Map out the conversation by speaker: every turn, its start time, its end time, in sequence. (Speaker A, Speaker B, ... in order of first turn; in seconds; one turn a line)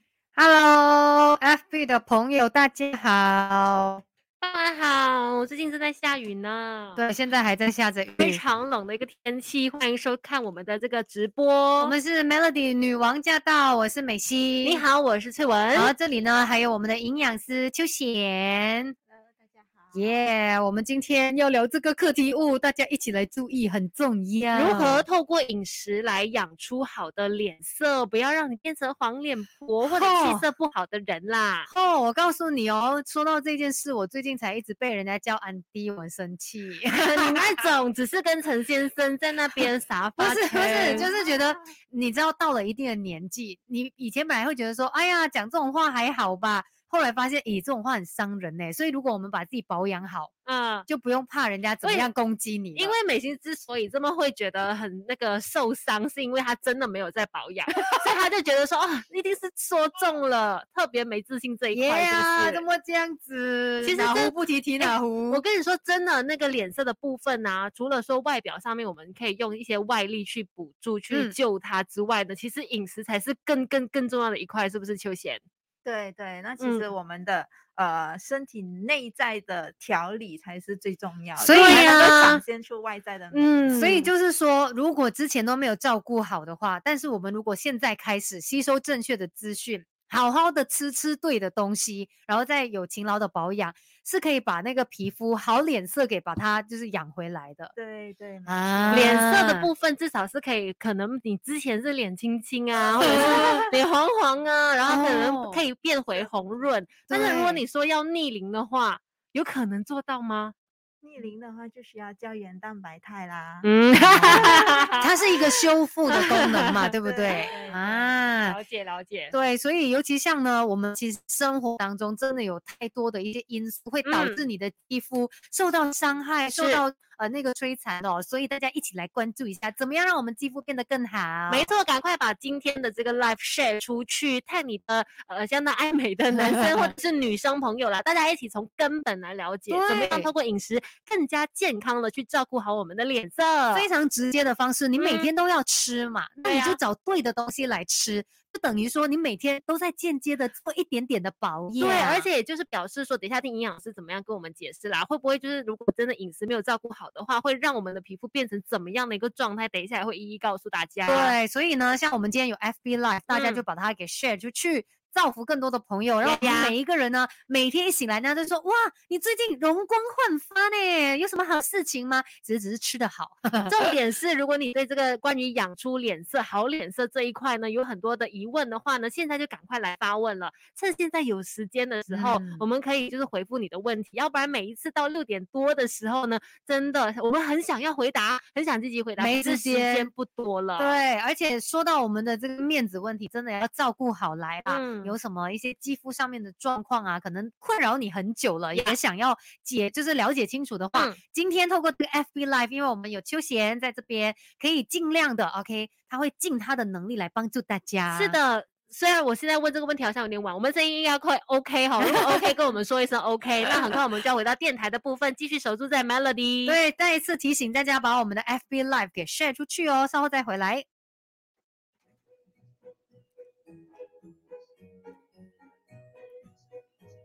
Speaker A: 0.3-4.0
Speaker B: 4.4-7.0
Speaker A: 7.0-8.4
Speaker B: 8.2-12.0
Speaker A: 11.8-14.8
Speaker B: 14.6-15.9
Speaker A: 15.8-18.9
Speaker C: 19.1-20.1
Speaker A: 19.9-25.0
Speaker B: 24.5-31.7
Speaker A: 29.8-30.4
Speaker A: 31.7-37.6
Speaker B: 36.9-41.1
Speaker A: 40.2-50.3
Speaker B: 50.5-50.9
Speaker A: 50.9-52.9
Speaker B: 51.8-52.1
Speaker B: 52.8-62.7
Speaker A: 61.7-65.4
Speaker B: 63.8-75.4
Speaker C: 75.8-84.0
Speaker B: 76.6-76.9
Speaker A: 81.4-82.4
Speaker B: 81.5-82.3
Speaker B: 83.3-84.1
Speaker A: 83.7-97.7
Speaker C: 97.8-99.2
Speaker A: 98.5-99.7
Speaker B: 98.9-110.5
Speaker C: 102.9-103.7
Speaker A: 103.0-103.7
Speaker A: 104.9-105.6
Speaker A: 107.1-107.6
Speaker C: 111.0-115.0
Speaker B: 113.6-116.9
Speaker A: 113.9-118.6
Speaker C: 116.9-118.1
Speaker B: 118.4-119.3
Speaker A: 119.3-131.7
Speaker B: 124.0-124.4
Speaker B: 126.5-126.8
Speaker B: 131.5-143.9
Speaker A: 136.3-136.9
Speaker A: 139.7-140.3
Speaker A: 143.7-152.3
Speaker B: 145.0-145.3
Speaker B: 146.4-146.8
Speaker B: 151.8-161.3
Speaker A: 161.1-173.9
Speaker B: 163.3-163.6
Speaker B: 166.2-166.8
Speaker B: 173.7-191.0
Speaker A: 182.1-182.6
Speaker A: 189.2-190.1
Speaker A: 190.8-208.4
Speaker B: 194.7-195.2
Speaker B: 208.1-216.8
Speaker A: 212.0-212.5
Speaker A: 213.6-214.0
Speaker A: 216.7-220.8